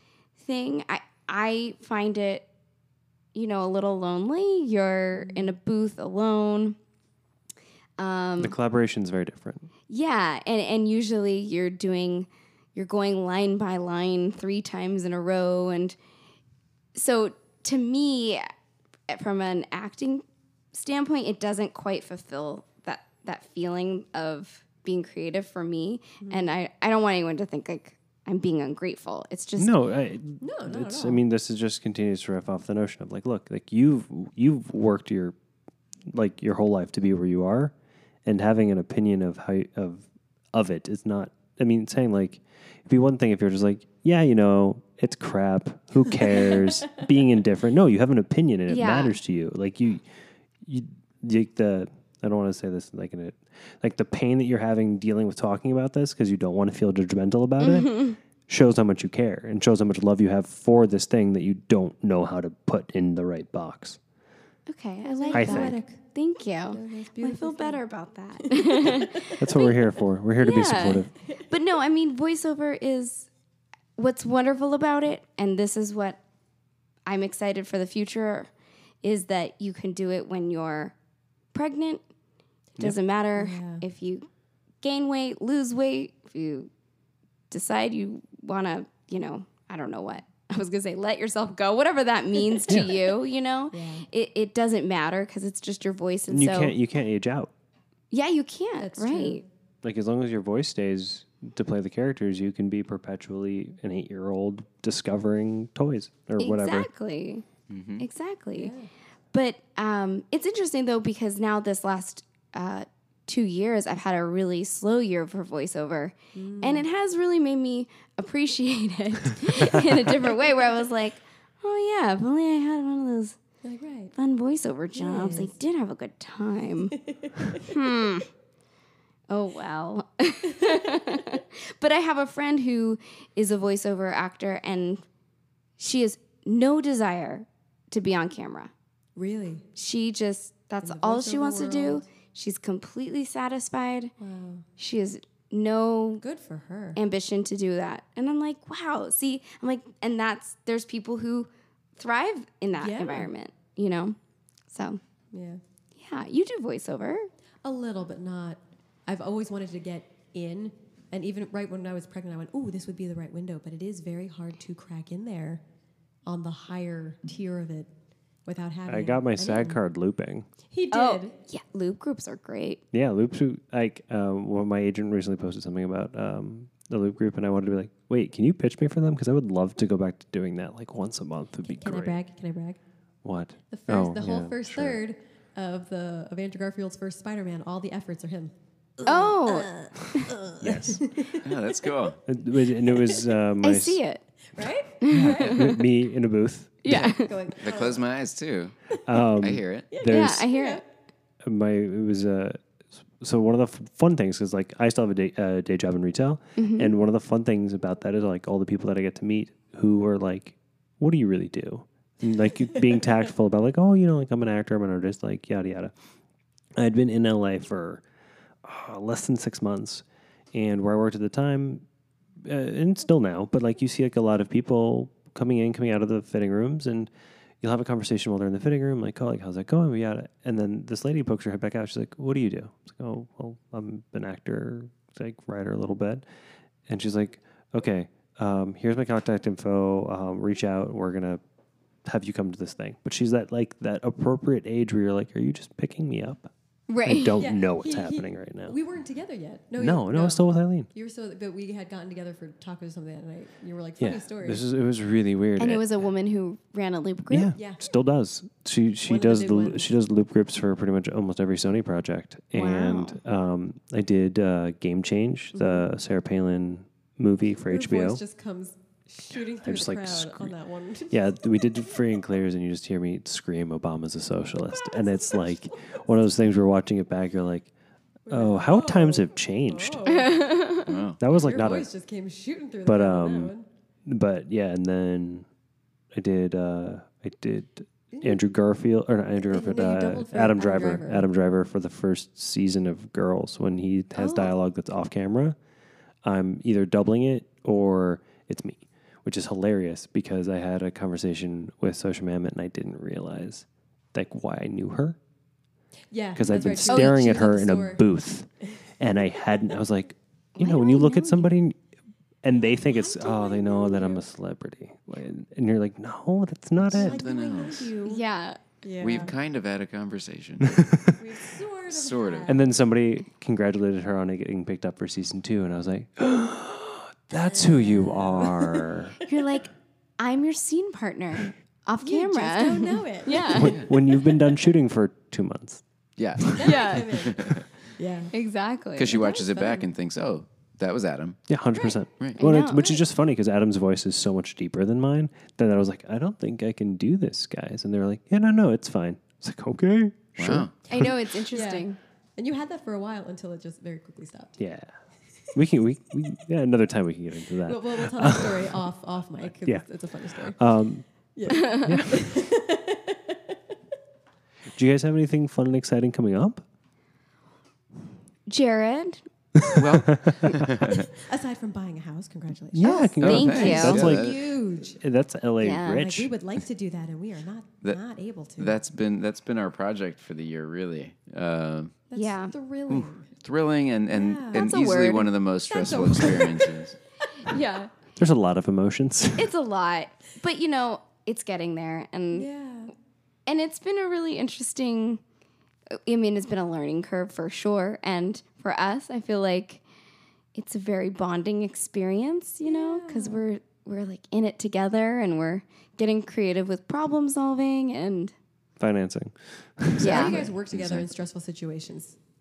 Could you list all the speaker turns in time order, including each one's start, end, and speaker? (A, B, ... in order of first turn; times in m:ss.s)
0:00.4-0:02.4 A
0:03.4-0:06.8 A
0:08.0-0:08.6 A
0:08.4-0:09.7 B
0:09.9-0:16.0 A
0:17.0-0:18.5 A
0:19.1-0:29.7 A
0:26.2-0:26.5 C
0:29.6-0:35.4 B
0:30.4-0:31.2 C
0:36.1-0:37.7 B
0:38.2-0:50.0 B
0:48.7-0:49.2 A
0:50.6-1:04.0 B
0:57.6-0:58.2 A
1:04.7-1:13.3 A
1:05.0-1:06.0 C
1:05.3-1:05.8 B
1:06.7-1:07.8 C
1:08.4-1:09.4 C
1:09.4-1:11.1 B
1:14.0-1:16.2 A
1:17.1-1:18.5 A
1:19.0-1:20.9 A
1:21.5-1:22.0 A
1:22.8-1:24.3 A
1:23.4-1:23.8 C
1:24.8-1:26.7 A
1:27.5-1:36.8 A
1:32.7-1:33.0 B
1:33.7-1:34.0 C
1:36.3-1:37.5 B
1:38.1-1:39.4 A
1:38.8-1:39.4 C
1:39.8-1:46.9 B
1:46.4-1:47.4 A
1:47.7-1:48.0 D
1:48.0-1:48.7 A
1:48.6-1:48.9 C
1:49.3-2:03.4 A
1:56.4-1:56.9 C
2:03.6-2:04.1 C
2:04.2-2:07.0 A
2:05.0-2:05.6 C
2:07.0-2:07.7 C
2:07.6-2:08.3 A
2:09.3-2:15.0 A
2:10.7-2:11.4 C
2:15.8-2:18.7 A
2:19.2-2:19.7 C
2:19.8-2:24.1 A
2:20.8-2:22.0 C
2:24.2-2:24.6 C
2:24.8-2:26.2 A
2:26.2-2:27.0 C
2:27.0-2:34.2 A
2:32.8-2:33.3 C
2:34.7-2:35.0 A
2:35.3-2:35.6 C
2:36.0-2:37.3 A
2:37.6-2:45.6 C
2:46.3-2:47.9 C
2:48.5-2:49.8 C
2:48.9-2:50.5 B
2:50.7-2:51.4 C
2:50.9-2:52.8 A
2:52.9-3:02.2 B
3:01.6-3:02.8 C
3:03.2-3:05.0 B
3:03.7-3:11.9 C
3:09.1-3:10.3 A
3:10.6-3:11.1 B
3:11.4-3:12.2 D
3:12.3-3:14.0 B
3:12.8-3:13.3 C
3:13.6-3:14.2 A
3:14.5-3:15.8 C
3:15.0-3:15.8 A
3:15.1-3:17.2 B
3:16.8-3:17.4 A
3:17.0-3:18.1 C
3:17.6-3:18.8 D
3:19.1-3:20.5 B
3:19.3-3:19.9 D
3:19.9-3:20.8 C
3:20.0-3:20.8 A
3:21.4-3:35.9 B
3:26.6-3:26.9 A
3:36.8-3:38.0 B
3:38.6-3:41.8 B
3:42.4-3:47.1 B
3:47.6-3:56.2 B
3:56.9-4:01.4 B
4:02.0-4:06.5 B
4:06.9-4:07.4 A
4:07.0-4:08.8 B
4:07.4-4:14.6 C
4:09.8-4:10.9 B
4:14.0-4:15.8 B
4:15.6-4:17.5 A
4:17.3-4:28.2 B
4:17.5-4:17.8 C
4:19.1-4:19.9 C
4:22.6-4:23.2 A
4:25.5-4:25.8 C
4:27.7-4:31.9 C
4:29.6-4:30.5 B
4:31.1-4:37.7 B
4:34.9-4:35.4 C
4:38.3-4:43.7 C
4:38.3-4:40.1 B
4:40.1-4:40.9 A
4:40.8-4:41.2 D
4:41.2-4:41.9 B
4:42.8-4:43.5 B
4:44.1-4:45.5 B
4:46.1-4:55.6 B
4:48.1-4:48.4 C
4:49.5-4:51.3 C
4:54.2-4:54.5 A
4:56.2-5:05.2 B
5:06.1-5:08.0 C
5:06.4-5:11.8 B
5:06.8-5:07.2 A
5:10.6-5:11.5 A
5:12.4-5:17.2 B
5:12.6-5:14.2 C
5:16.9-5:17.9 D
5:16.9-5:18.2 C
5:18.0-5:18.6 A
5:18.8-5:19.3 C
5:19.0-5:21.1 D
5:20.7-5:21.1 B
5:21.2-5:22.6 C
5:21.9-5:22.6 D
5:22.5-5:29.2 B
5:27.4-5:28.9 C
5:29.2-5:33.8 A
5:32.0-5:34.3 C
5:33.4-5:35.8 B
5:33.6-5:33.9 D
5:36.2-5:37.7 D
5:36.4-5:36.6 B
5:36.6-5:38.3 C
5:36.6-5:37.2 A
5:38.3-5:39.2 A
5:39.0-5:41.4 D
5:39.1-5:39.9 C
5:41.5-5:50.7 B
5:41.7-5:42.0 C
5:42.4-5:43.0 A
5:50.4-5:50.8 D
5:50.9-5:52.0 A
5:51.5-5:54.6 C
5:54.6-5:54.9 B
5:55.5-5:58.8 B
5:57.6-6:00.6 C
5:59.6-6:01.0 B
6:01.4-6:03.6 C
6:01.6-6:01.9 A
6:01.6-6:02.4 B
6:04.8-6:06.6 B
6:08.5-6:09.2 A
6:09.6-6:10.5 B
6:09.7-6:11.1 D
6:10.8-6:15.0 C
6:12.7-6:16.3 B
6:12.8-6:14.2 A
6:13.2-6:14.4 D
6:15.6-6:16.1 A
6:16.0-6:18.8 C
6:18.6-6:22.0 D
6:22.1-6:23.3 C
6:22.2-6:22.5 A
6:22.9-6:27.0 D
6:24.1-6:24.7 C
6:24.5-6:25.3 A
6:25.7-6:26.9 C
6:27.4-6:27.9 A
6:28.2-6:29.5 B
6:29.4-6:32.5 A
6:32.3-6:32.9 C
6:33.5-6:35.2 A
6:36.0-6:39.8 A
6:40.6-6:48.3 A
6:42.6-6:43.4 C
6:48.8-6:50.4 B
6:50.0-6:50.4 A
6:50.0-6:51.1 D
6:50.0-6:52.2 C